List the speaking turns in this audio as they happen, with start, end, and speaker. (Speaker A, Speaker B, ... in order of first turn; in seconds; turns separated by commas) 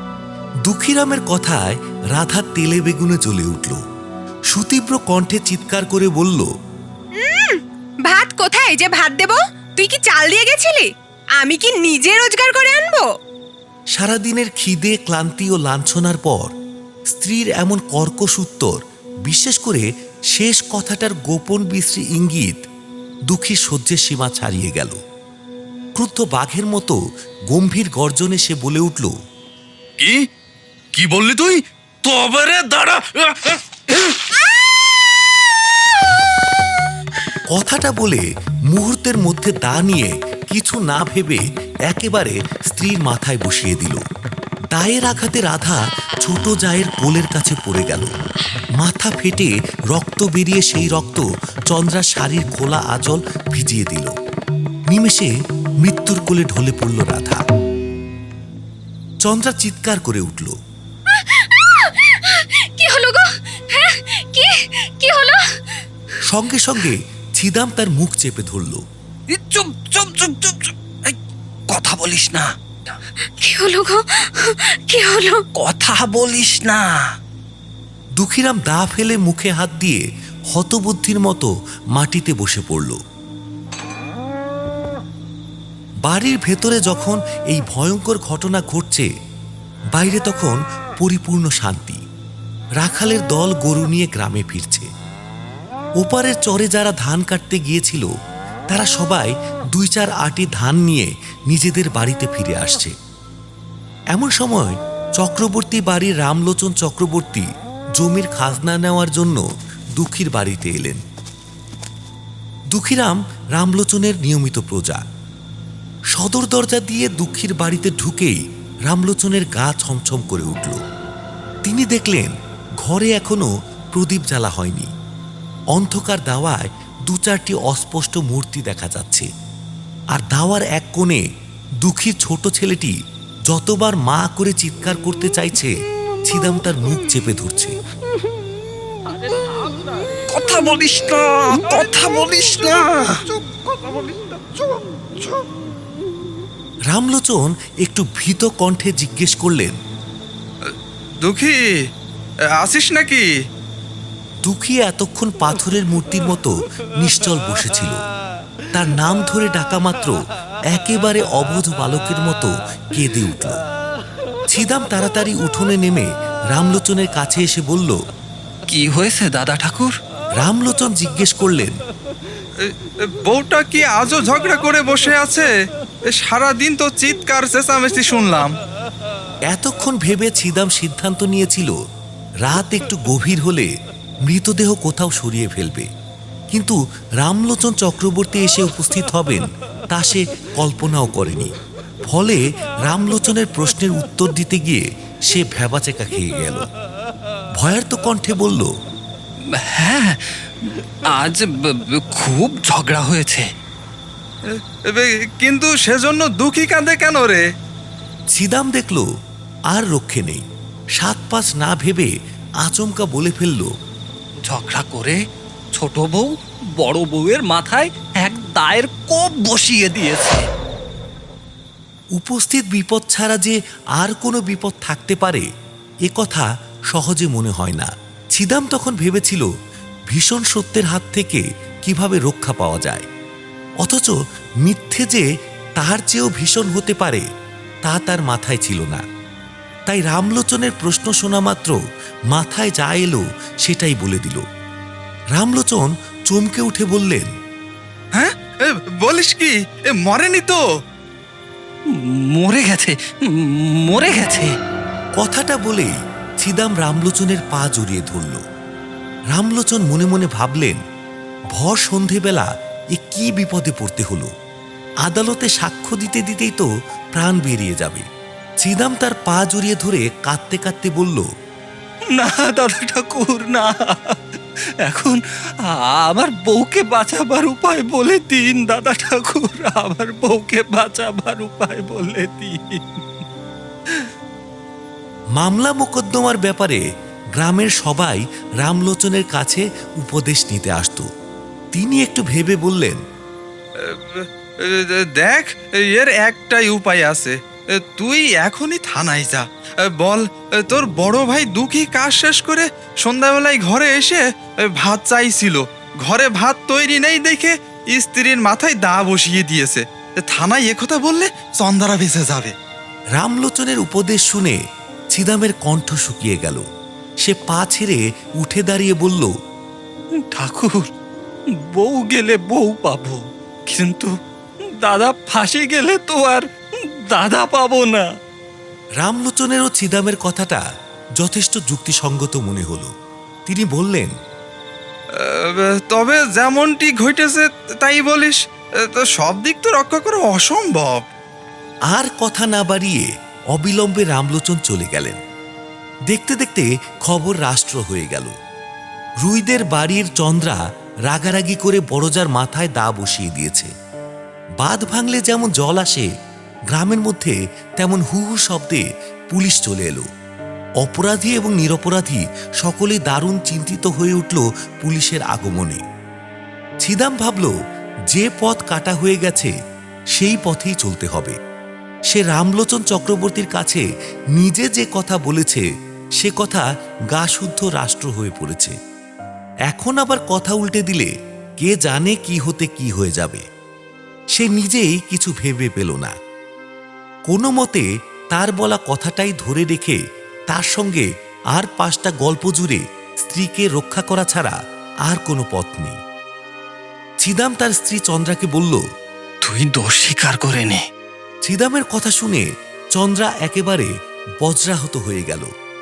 Speaker A: 0.7-3.8, Speaker A: 4.5-6.5, Speaker B: 7.2-10.9, Speaker B: 11.4-13.1, Speaker A: 14.0-16.5, Speaker A: 17.1-22.6, Speaker A: 23.3-25.0, Speaker A: 26.0-27.0, Speaker A: 27.5-29.1, Speaker C: 30.0-30.3, Speaker C: 30.9-34.1, Speaker A: 37.5-44.0, Speaker A: 44.7-48.1, Speaker A: 48.8-54.1, Speaker A: 54.9-55.3, Speaker A: 55.8-57.4, Speaker A: 59.2-60.5, Speaker D: 61.1-65.8, Speaker A: 66.3-68.8, Speaker E: 69.3-71.2, Speaker E: 71.7-73.0, Speaker D: 73.4-75.4, Speaker E: 75.6-77.0, Speaker A: 78.2-83.0, Speaker A: 86.0-89.1, Speaker A: 90.0-92.0, Speaker A: 92.8-94.9, Speaker A: 96.0-98.1, Speaker A: 98.7-102.9, Speaker A: 104.1-109.4, Speaker A: 110.0-111.0, Speaker A: 112.7-115.0, Speaker A: 116.1-120.8, Speaker A: 121.7-124.9, Speaker A: 125.7-129.3, Speaker A: 130.1-131.2, Speaker A: 131.8-133.0, Speaker A: 133.5-135.7, Speaker A: 136.2-137.8, Speaker E: 140.3-143.2, Speaker A: 146.9-149.8, Speaker F: 150.7-151.6, Speaker F: 152.6-153.3, Speaker A: 154.4-158.0, Speaker A: 158.7-160.2, Speaker A: 160.7-163.6, Speaker A: 164.5-168.0, Speaker E: 168.7-169.9, Speaker A: 170.4-171.8, Speaker F: 173.2-175.5, Speaker F: 176.2-178.5, Speaker A: 179.5-181.8, Speaker A: 182.4-183.7, Speaker A: 184.3-185.9, Speaker A: 186.5-191.5, Speaker A: 192.1-196.7, Speaker A: 197.6-198.7, Speaker E: 199.4-203.5, Speaker F: 204.5-207.4, Speaker A: 208.3-209.1, Speaker A: 209.7-210.4, Speaker A: 211.0-213.7, Speaker E: 214.4-215.2, Speaker E: 215.8-220.5, Speaker A: 222.2-225.5, Speaker A: 226.1-229.5, Speaker A: 230.1-233.1, Speaker A: 233.8-235.2, Speaker A: 235.8-237.2, Speaker A: 237.9-239.0, Speaker A: 239.9-241.8, Speaker A: 242.3-244.4, Speaker A: 245.3-247.3, Speaker F: 248.2-250.6, Speaker E: 251.9-254.5, Speaker A: 255.2-258.4, Speaker A: 259.3-260.8, Speaker A: 261.6-264.3, Speaker A: 265.1-268.1, Speaker A: 268.6-271.3, Speaker E: 272.1-274.2, Speaker E: 274.8-283.1, Speaker A: 285.4-286.8, Speaker A: 287.4-291.1, Speaker A: 291.7-293.0, Speaker F: 293.8-297.4, Speaker F: 297.9-312.5, Speaker A: 313.2-314.6, Speaker A: 315.1-316.6, Speaker A: 317.2-319.3, Speaker E: 320.2-320.9, Speaker E: 321.6-324.1, Speaker E: 324.8-326.4, Speaker E: 327.1-328.1, Speaker A: 329.0-330.6, Speaker A: 331.2-332.9, Speaker A: 333.5-334.1, Speaker F: 335.2-341.1, Speaker A: 341.9-345.2, Speaker A: 346.1-348.3, Speaker A: 349.2-353.7, Speaker A: 354.6-356.1, Speaker A: 356.7-360.1, Speaker A: 360.8-365.8, Speaker A: 366.8-367.6, Speaker A: 368.1-369.5, Speaker A: 370.1-371.4, Speaker A: 372.1-373.9, Speaker A: 374.4-375.7, Speaker A: 376.2-378.8, Speaker A: 379.7-383.4, Speaker A: 384.4-386.1, Speaker A: 387.3-390.0, Speaker A: 390.5-394.6, Speaker A: 395.1-396.0, Speaker A: 397.2-398.8, Speaker E: 399.4-400.8, Speaker A: 401.5-402.4, Speaker A: 403.0-403.9, Speaker A: 404.4-405.5